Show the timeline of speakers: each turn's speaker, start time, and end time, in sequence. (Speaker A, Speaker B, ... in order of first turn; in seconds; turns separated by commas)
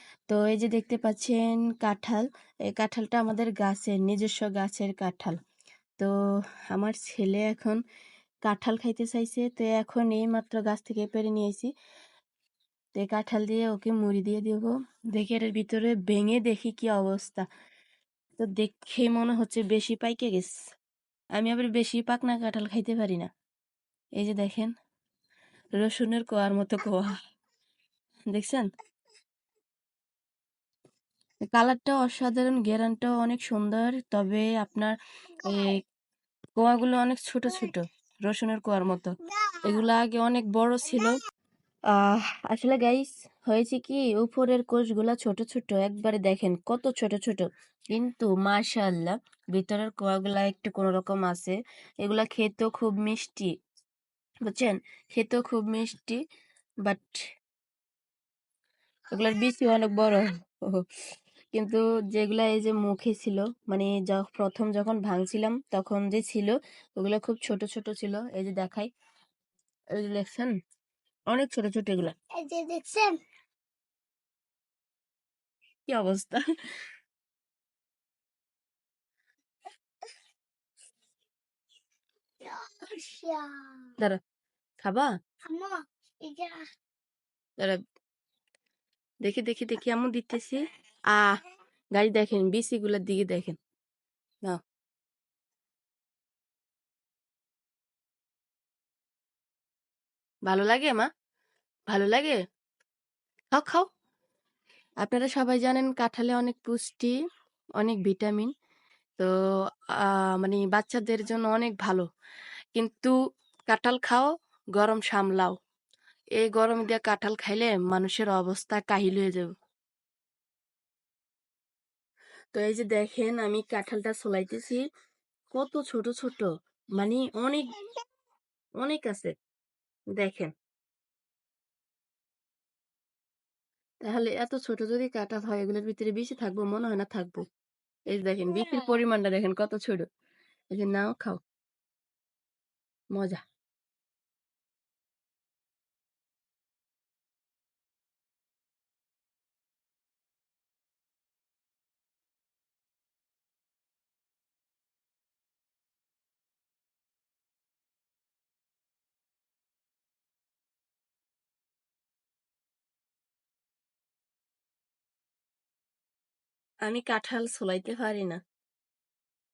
Speaker A: 0.3-5.4, Speaker A: 6.7-7.8, Speaker A: 8.5-11.7, Speaker A: 13.0-17.4, Speaker A: 18.4-20.5, Speaker A: 21.4-23.3, Speaker A: 24.2-24.7, Speaker A: 25.8-27.1, Speaker A: 28.3-28.6, Speaker A: 31.5-35.8, Speaker A: 36.5-39.1, Speaker B: 39.3-39.6, Speaker A: 39.6-41.2, Speaker A: 41.9-53.5, Speaker A: 54.5-56.2, Speaker A: 56.9-57.2, Speaker A: 59.1-60.8, Speaker A: 61.5-68.9, Speaker A: 70.0-70.5, Speaker A: 71.3-72.1, Speaker B: 72.4-73.2, Speaker A: 75.9-76.4, Speaker B: 82.4-83.9, Speaker A: 84.8-85.1, Speaker B: 85.5-86.6, Speaker A: 89.2-90.6, Speaker A: 92.0-93.6, Speaker A: 100.5-101.1, Speaker A: 101.9-102.3, Speaker A: 103.5-103.8, Speaker A: 105.0-107.1, Speaker A: 107.8-108.5, Speaker A: 110.4-112.0, Speaker A: 112.7-113.1, Speaker A: 113.7-115.5, Speaker A: 116.4-119.5, Speaker A: 122.5-124.8, Speaker A: 125.5-127.7, Speaker A: 128.8-129.3, Speaker A: 130.2-130.5, Speaker A: 134.0-137.4, Speaker A: 138.1-140.0, Speaker A: 140.7-141.4, Speaker A: 143.1-143.4, Speaker A: 166.8-168.4